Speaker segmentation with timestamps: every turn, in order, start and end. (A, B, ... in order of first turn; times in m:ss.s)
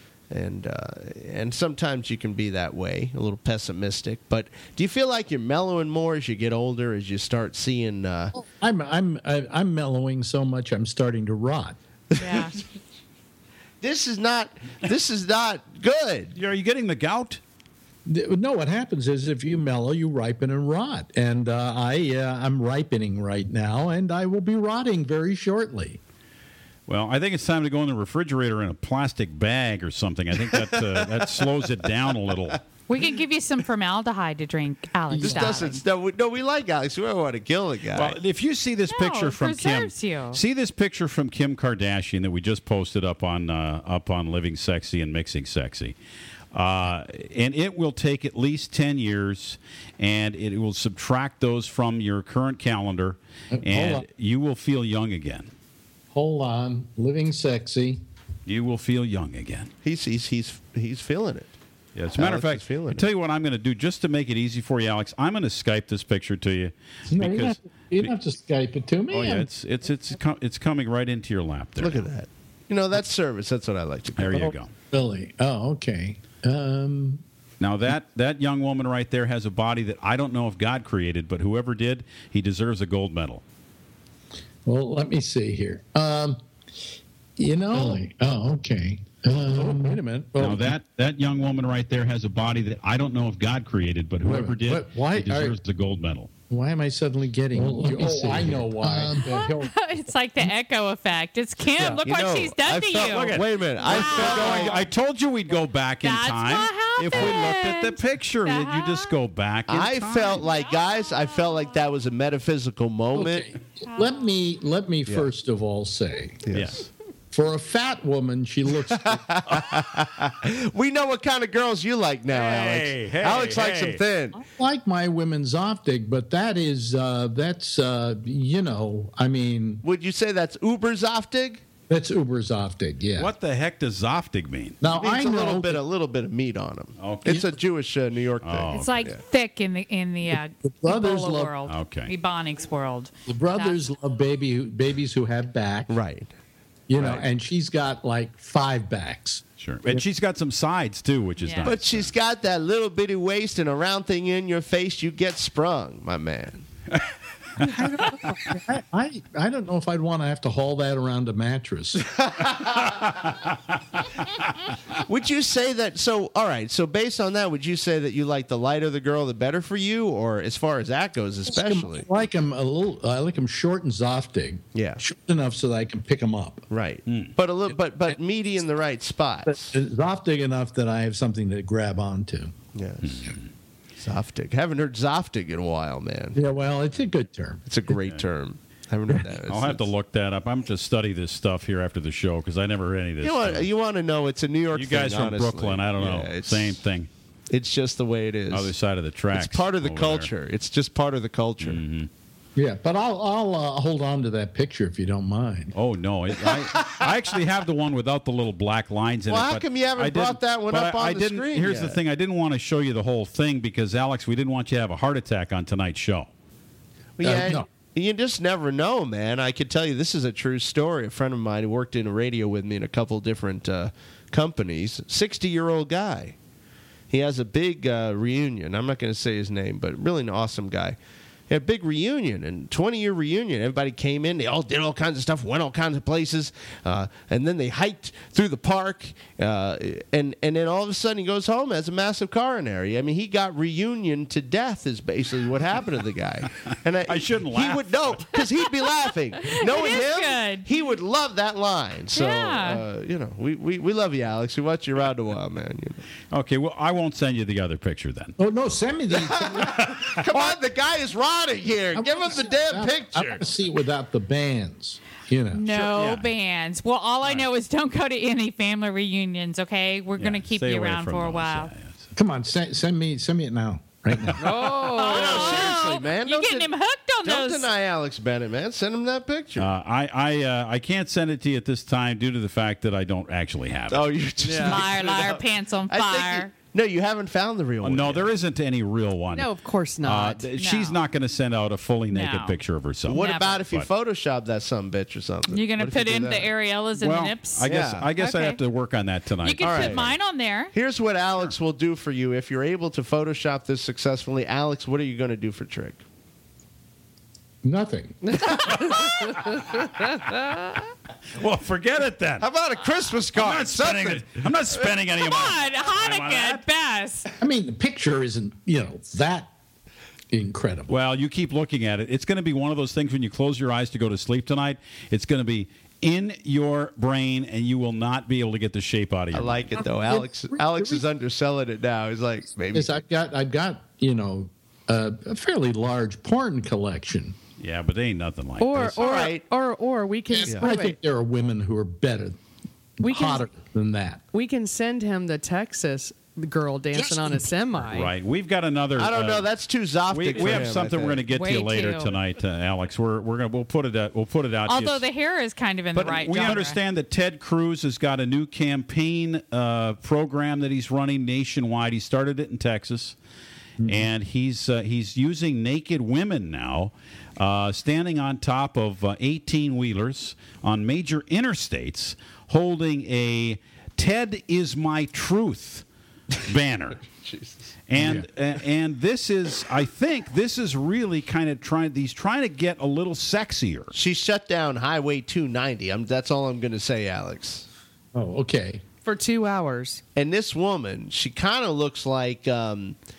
0:00.3-0:08.4 A
0:08.3-0:11.8 B
0:12.1-0:12.6 A
0:12.2-0:12.6 C
0:13.8-0:16.4 A
0:16.4-0:17.4 D
0:18.1-0:26.0 B
0:26.9-0:32.6 D
0:30.5-0:31.5 A
0:32.9-0:35.8 C
0:35.1-0:35.6 B
0:35.2-0:38.2 A
0:37.9-0:46.0 D
0:38.9-0:40.4 C
0:46.5-0:55.5 D
0:53.5-0:54.0 B
0:56.1-0:58.0 B
0:58.5-0:59.7 D
0:59.8-1:01.5 A
1:02.0-1:08.1 D
1:02.2-1:03.1 A
1:07.1-1:09.5 B
1:09.1-1:12.1 D
1:11.8-1:14.5 A
1:14.2-1:14.7 D
1:14.4-1:17.2 B
1:17.6-1:23.4 D
1:24.7-1:26.4 B
1:27.4-1:30.8 B
1:30.4-1:36.3 D
1:34.2-1:35.6 B
1:36.5-1:39.7 B
1:39.2-1:44.9 C
1:41.8-1:44.8 A
1:43.1-1:50.4 D
1:46.0-1:49.2 C
1:47.1-1:47.5 A
1:49.7-1:53.5 A
1:50.4-1:51.6 C
1:53.1-1:56.4 B
1:53.8-1:54.2 C
1:56.4-1:56.8 A
1:56.5-1:56.9 D
1:57.3-1:59.4 B
1:58.9-2:04.4 A
2:02.3-2:04.0 D
2:04.4-2:09.8 B
2:09.8-2:11.6 A
2:11.9-2:13.3 B
2:13.2-2:14.8 D
2:14.8-2:15.8 B
2:14.9-2:19.2 A
2:17.0-2:17.5 D
2:18.4-2:19.0 D
2:18.7-2:23.8 C
2:20.3-2:21.5 B
2:21.7-2:22.1 D
2:23.3-2:25.9 B
2:25.9-2:26.3 A
2:26.9-2:30.0 B
2:27.0-2:27.3 A
2:29.6-2:32.1 D
2:31.4-2:31.7 C
2:31.6-2:36.7 A
2:37.6-2:42.2 B
2:37.6-2:38.1 D
2:42.4-2:43.0 A
2:43.0-2:43.4 D
2:45.1-2:52.1 A
2:51.5-2:56.7 B
2:54.7-2:55.0 A
2:56.7-2:59.8 A
2:57.1-2:57.4 D
2:59.5-3:02.5 B
3:02.7-3:03.3 A
3:03.0-3:03.5 D
3:04.0-3:06.4 A
3:06.4-3:07.6 B
3:07.7-3:09.9 A
3:09.5-3:13.7 D
3:13.2-3:16.8 A
3:14.7-3:17.1 D
3:17.5-3:18.7 A
3:18.5-3:20.3 D
3:19.3-3:21.8 A
3:21.6-3:22.1 D
3:22.6-3:25.8 B
3:25.8-3:36.3 D
3:26.5-3:27.1 A
3:29.3-3:32.0 A
3:37.2-3:46.4 A
3:37.2-3:37.7 B
3:47.1-4:16.0 A
4:07.1-4:08.2 D
4:09.4-4:10.7 C
4:12.1-4:12.8 C
4:16.3-4:18.4 D
4:18.4-4:20.5 B
4:19.2-4:23.5 A
4:22.0-4:25.6 B
4:25.5-4:31.7 C
4:25.7-4:26.3 D
4:30.2-4:32.1 D
4:32.2-4:34.7 B
4:34.2-4:34.7 D
4:34.4-4:35.7 E
4:34.9-4:37.7 C
4:35.1-4:36.7 A
4:37.2-4:39.7 A
4:39.6-4:44.5 D
4:43.9-4:48.3 A
4:44.5-4:44.8 E
4:44.6-4:46.5 C
4:47.8-4:49.5 D
4:49.3-4:50.4 E
4:50.0-4:53.9 D
4:50.6-4:51.0 C
4:52.1-4:52.6 C
4:53.1-4:56.5 A
4:53.1-4:53.6 C
4:55.5-4:57.6 C
4:57.0-5:00.2 D
4:57.6-4:58.1 A
4:58.2-4:58.6 C
4:59.4-5:00.7 C
4:59.6-5:00.1 A
5:00.7-5:06.0 A
5:07.6-5:08.6 B
5:08.2-5:10.8 E
5:08.8-5:09.8 D
5:11.4-5:12.5 D
5:12.4-5:14.9 A
5:13.3-5:16.6 D
5:15.2-5:17.3 C
5:17.4-5:19.5 B
5:20.3-5:20.9 B
5:20.9-5:29.7 D
5:29.3-5:33.0 A
5:29.8-5:31.0 B
5:32.7-5:37.4 B
5:37.6-5:39.0 D
5:38.6-5:41.0 E
5:39.0-5:39.4 A
5:40.3-5:42.4 B
5:43.0-5:44.2 B
5:43.0-5:43.5 E
5:44.3-5:48.1 E
5:47.0-5:47.4 B
5:47.9-5:49.5 D
5:49.0-5:51.2 A
5:50.1-5:55.0 D
5:51.3-5:52.2 C
5:54.7-5:56.8 C
5:55.9-6:03.2 D
6:03.8-6:04.1 B
6:03.8-6:15.8 D
6:16.4-6:17.0 D
6:17.0-6:17.6 A
6:17.9-6:23.9 D
6:18.0-6:18.2 B
6:23.9-6:27.7 A
6:28.2-6:28.8 B
6:29.0-6:30.0 E
6:30.2-6:33.0 A